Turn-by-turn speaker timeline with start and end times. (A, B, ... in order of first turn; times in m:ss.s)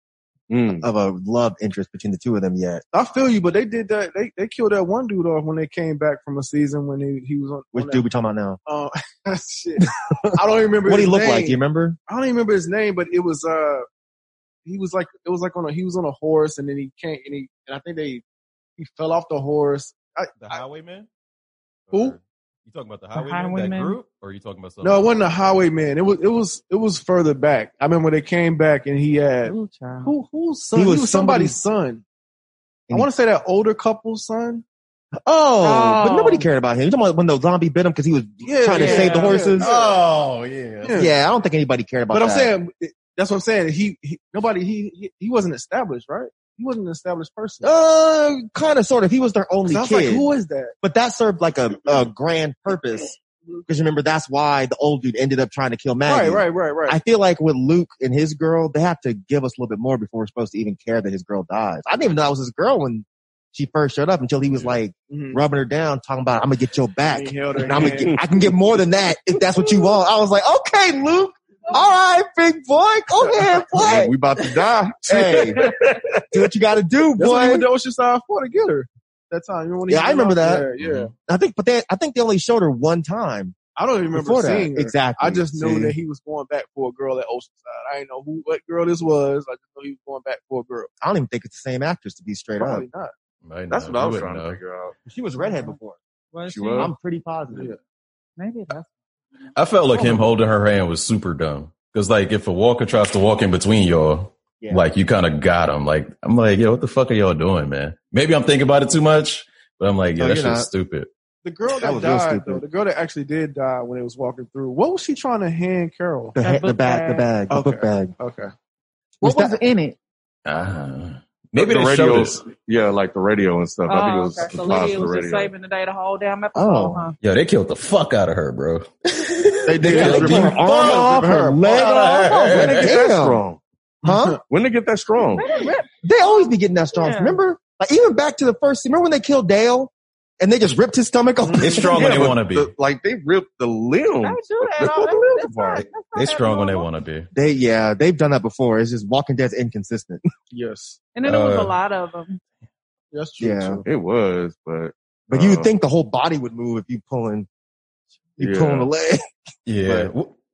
0:00.5-0:00.8 A
0:00.8-0:02.8 B
0:02.9-0:08.0 C
0:07.7-0:08.6 B
0:08.7-0:13.8 C
0:10.8-0:12.0 B
0:14.6-0:18.2 C
0:18.8-0:20.6 C
0:20.4-0:21.1 D
0:21.9-0:25.6 D
0:21.9-0:22.2 C
0:23.1-0:24.0 E
0:24.8-0:32.0 C
0:29.4-0:30.1 E
0:30.7-0:31.6 B
0:32.9-0:34.6 C
0:35.2-0:39.7 B
0:35.6-0:36.5 E
0:38.4-0:40.0 C
0:38.7-0:39.4 E
0:39.6-0:41.0 D
0:40.8-0:41.1 C
0:40.9-0:42.6 B
0:42.1-0:47.7 C
0:47.6-0:50.2 B
0:49.6-0:50.7 C
0:50.8-0:53.2 B
0:53.7-1:14.2 B
0:56.0-0:57.0 C
1:04.5-1:04.8 D
1:05.1-1:05.4 C
1:07.0-1:08.5 C
1:07.7-1:08.2 A
1:13.8-1:16.2 A
1:15.0-1:15.7 B
1:16.3-1:17.6 B
1:17.2-1:21.1 C
1:19.9-1:20.6 B
1:20.8-1:21.1 D
1:21.3-1:23.5 B
1:23.8-1:30.9 C
1:24.1-1:26.0 B
1:31.0-1:32.9 B
1:32.6-1:33.1 C
1:33.4-1:34.6 D
1:33.7-1:34.9 A
1:35.0-1:36.0 B
1:35.4-1:35.8 E
1:36.3-1:36.9 E
1:36.5-1:36.9 A
1:36.8-1:37.7 B
1:37.5-1:37.8 C
1:38.4-1:40.2 E
1:39.5-1:51.1 D
1:50.2-1:50.7 B
1:51.4-1:56.3 C
1:51.7-1:52.6 B
1:56.3-1:58.1 B
1:56.4-1:57.2 E
1:57.5-1:58.5 C
1:59.2-2:00.0 E
1:59.2-1:59.6 B
2:00.4-2:02.4 D
2:01.6-2:05.5 A
2:03.8-2:07.2 E
2:06.5-2:07.0 B
2:07.2-2:13.0 D
2:09.6-2:13.4 B
2:09.8-2:11.6 C
2:12.1-2:12.6 E
2:12.5-2:13.6 A
2:14.0-2:14.4 C
2:14.0-2:14.4 B
2:14.5-2:15.4 A
2:15.3-2:17.4 E
2:16.0-2:22.0 B
2:21.4-2:22.0 C
2:21.6-2:22.7 D
2:21.9-2:25.9 A
2:24.2-2:26.9 E
2:26.1-2:27.3 D
2:27.3-2:30.2 B
2:30.5-2:31.0 C
2:31.1-2:32.4 E
2:31.2-2:31.8 D
2:33.1-2:33.9 C
2:33.4-2:33.8 B
2:33.8-2:35.7 A
2:35.3-2:37.5 B
2:38.4-2:39.3 B
2:38.4-2:38.9 A
2:39.6-2:40.3 D